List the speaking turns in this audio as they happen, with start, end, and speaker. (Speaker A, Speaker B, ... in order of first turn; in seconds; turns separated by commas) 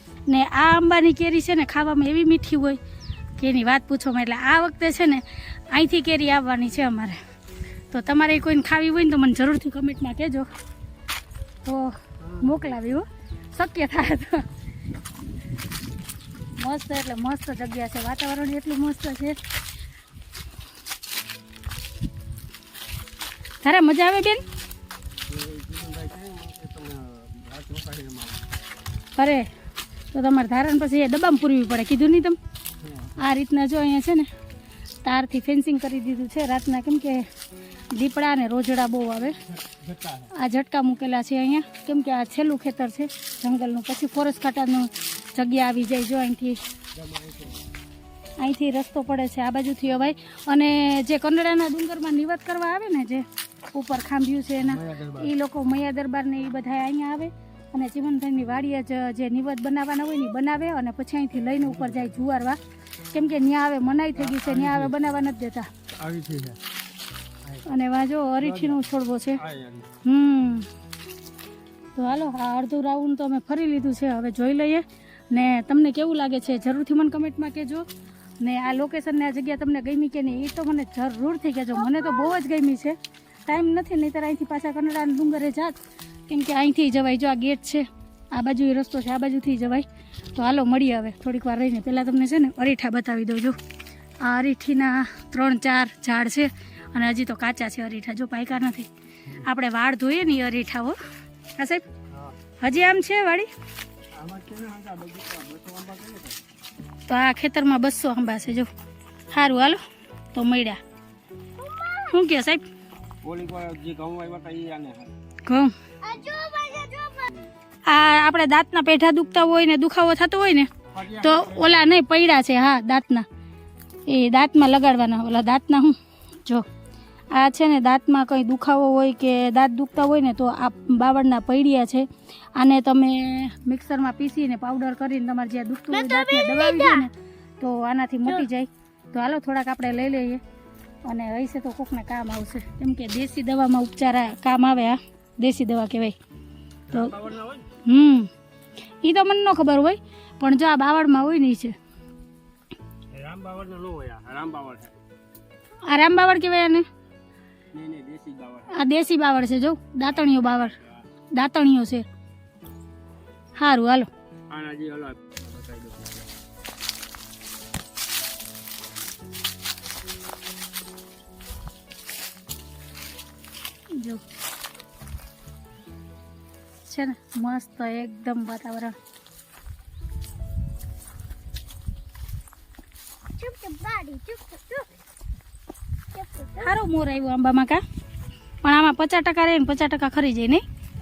Speaker A: 0.3-2.8, Speaker A: 3.4-7.2, Speaker A: 7.9-10.5, Speaker A: 11.6-14.5, Speaker B: 12.2-12.8, Speaker A: 16.6-19.4, Speaker A: 23.6-24.4, Speaker B: 25.3-28.4, Speaker A: 29.2-29.5, Speaker A: 30.1-32.4, Speaker B: 32.8-33.2, Speaker A: 33.2-34.3, Speaker A: 35.0-37.3, Speaker A: 37.9-39.4, Speaker B: 39.5-40.3, Speaker A: 40.3-46.6, Speaker B: 46.9-47.6, Speaker A: 48.4-62.6, Speaker B: 54.6-55.3, Speaker B: 61.6-62.1, Speaker A: 63.1-65.7, Speaker B: 64.2-65.0, Speaker B: 66.0-66.6, Speaker A: 67.7-69.4, Speaker B: 68.4-68.8, Speaker B: 69.3-69.9, Speaker A: 70.0-70.7, Speaker A: 72.0-77.9, Speaker A: 78.4-93.6, Speaker C: 81.9-82.3, Speaker A: 94.2-101.0, Speaker A: 101.6-101.8, Speaker A: 102.6-103.5, Speaker B: 104.2-106.4, Speaker A: 107.1-108.7, Speaker A: 109.3-109.8, Speaker A: 110.3-110.8, Speaker C: 111.6-112.2, Speaker A: 112.1-112.6, Speaker B: 113.2-115.1, Speaker A: 115.4-115.7, Speaker C: 116.0-117.3, Speaker A: 117.9-123.3, Speaker B: 120.9-121.9, Speaker A: 124.1-126.7, Speaker A: 127.3-140.4, Speaker C: 135.9-137.1, Speaker A: 141.1-146.2, Speaker B: 146.9-147.7, Speaker A: 147.8-148.3, Speaker A: 149.0-151.8, Speaker B: 153.1-155.0, Speaker A: 155.8-156.9, Speaker B: 157.7-158.7, Speaker A: 158.7-160.8, Speaker B: 160.3-161.0, Speaker A: 161.3-162.1, Speaker A: 163.6-164.1, Speaker B: 164.5-166.3, Speaker A: 173.9-174.2, Speaker A: 176.8-179.0, Speaker C: 183.4-184.9, Speaker C: 186.1-186.7, Speaker A: 186.6-187.8, Speaker A: 188.6-190.7